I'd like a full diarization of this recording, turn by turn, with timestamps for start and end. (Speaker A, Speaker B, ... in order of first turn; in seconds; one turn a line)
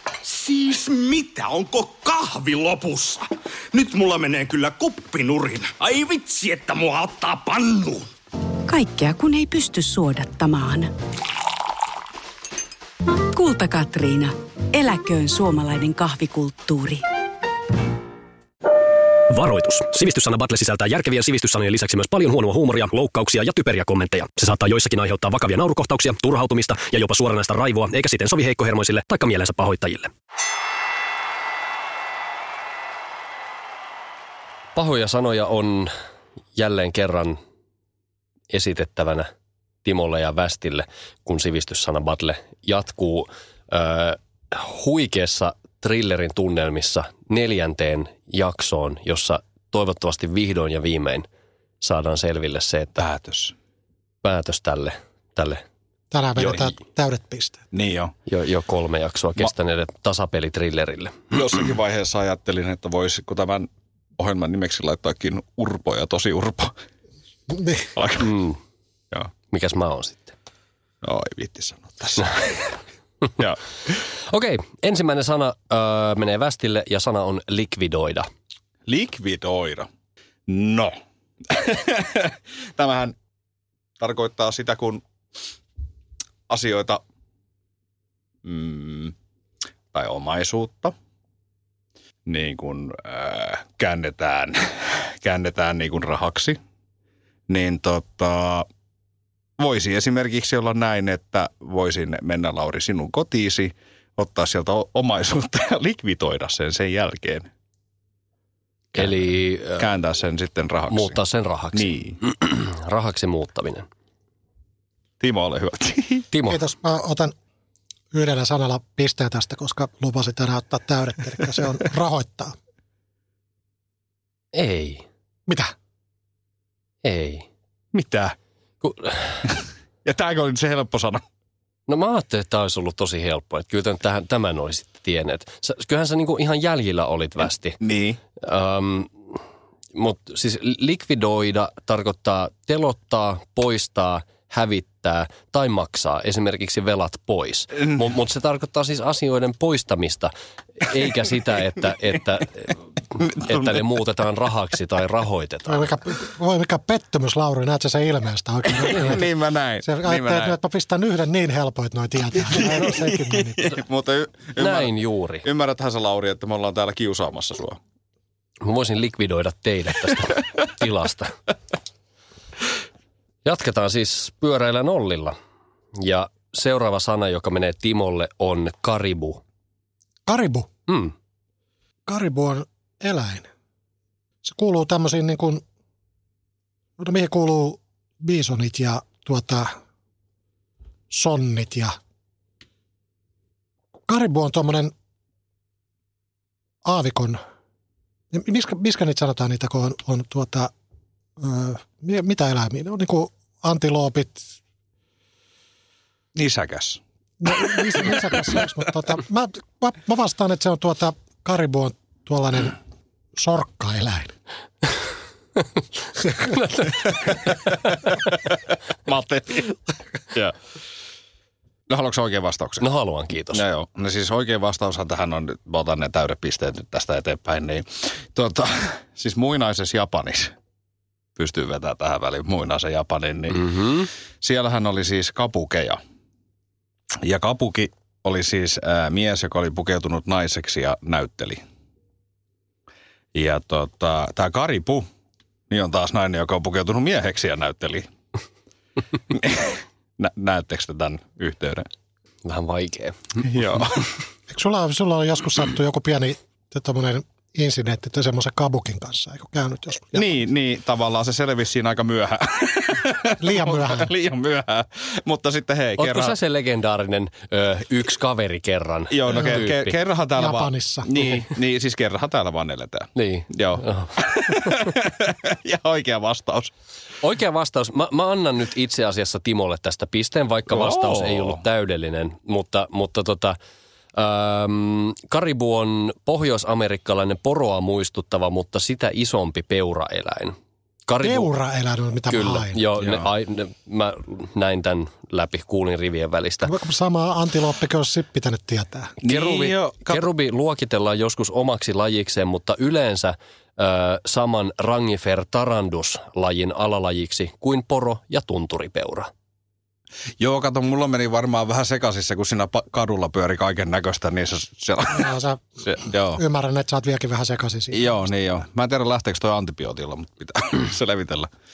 Speaker A: 0.2-8.1
Speaker B: 8.7-10.9
Speaker B: 13.3-17.0
Speaker C: 19.4-30.1
Speaker D: 20.8-21.9
Speaker D: 34.8-35.9
Speaker D: 36.5-37.4
Speaker D: 38.5-39.3
Speaker D: 39.8-51.3
Speaker D: 51.8-53.0
Speaker E: 53.0-53.5
Speaker D: 54.2-55.6
Speaker F: 56.1-57.6
Speaker E: 57.7-58.1
Speaker D: 58.3-61.3
Speaker E: 61.3-66.7
Speaker F: 67.5-67.9
Speaker E: 67.9-68.4
Speaker D: 68.2-68.6
Speaker D: 69.5-70.3
Speaker E: 71.0-72.7
Speaker D: 74.2-78.3
Speaker E: 78.9-79.9
Speaker E: 80.5-80.9
Speaker E: 81.5-83.2
Speaker E: 84.0-85.0
Speaker E: 86.5-87.0
Speaker E: 88.5-89.2
Speaker E: 89.9-91.0
Speaker E: 92.3-96.6
Speaker E: 97.5-98.7
Speaker E: 99.6-107.5
Speaker D: 108.9-109.9
Speaker E: 109.8-111.2
Speaker D: 110.9-113.9
Speaker E: 111.7-112.2
Speaker E: 115.2-116.3
Speaker D: 116.3-116.6
Speaker F: 116.5-117.3
Speaker F: 118.1-122.5
Speaker D: 124.5-125.0
Speaker F: 125.5-125.7
Speaker D: 127.0-127.5
Speaker E: 127.9-128.4
Speaker D: 128.8-129.3
Speaker E: 129.4-131.2
Speaker D: 131.9-137.8
Speaker E: 137.8-138.2
Speaker D: 138.4-139.1
Speaker D: 139.9-155.9
Speaker E: 153.2-153.9
Speaker F: 155.7-159.3
Speaker E: 158.8-160.6
Speaker F: 159.8-163.8
Speaker E: 162.4-167.8
Speaker D: 164.6-165.5
Speaker D: 168.6-171.3
Speaker D: 173.4-175.3
Speaker D: 176.0-179.4
Speaker F: 180.3-180.7
Speaker D: 180.9-181.1
Speaker F: 182.1-183.5
Speaker F: 184.4-185.6
Speaker F: 187.0-189.7
Speaker F: 191.1-191.9
Speaker F: 194.1-194.9
Speaker F: 196.8-197.4
Speaker F: 198.3-200.7
Speaker F: 201.4-204.5
Speaker E: 206.4-207.0
Speaker F: 207.4-212.8
Speaker F: 213.4-214.3
Speaker D: 216.3-217.5
Speaker E: 217.9-218.5
Speaker E: 219.1-219.8
Speaker E: 221.9-222.9
Speaker D: 222.8-223.6
Speaker E: 223.5-230.5
Speaker E: 231.4-233.7
Speaker D: 233.5-234.1
Speaker E: 234.4-236.0
Speaker E: 237.2-241.6
Speaker E: 243.3-245.1
Speaker E: 245.7-248.1
Speaker E: 249.3-251.9
Speaker D: 252.4-253.4
Speaker E: 253.4-254.1
Speaker F: 254.5-260.3
Speaker E: 260.1-266.4
Speaker F: 263.4-264.1
Speaker D: 266.0-270.0
Speaker E: 269.1-276.7
Speaker F: 270.4-271.1
Speaker D: 273.1-274.1
Speaker D: 277.2-283.6
Speaker E: 280.7-281.6
Speaker D: 284.1-290.5
Speaker D: 291.1-291.5
Speaker F: 291.2-292.8
Speaker D: 292.3-296.7
Speaker E: 293.0-293.3
Speaker F: 296.6-299.2
Speaker E: 299.2-300.3
Speaker D: 299.2-309.3
Speaker E: 310.4-316.4
Speaker F: 315.1-318.2
Speaker E: 317.9-321.5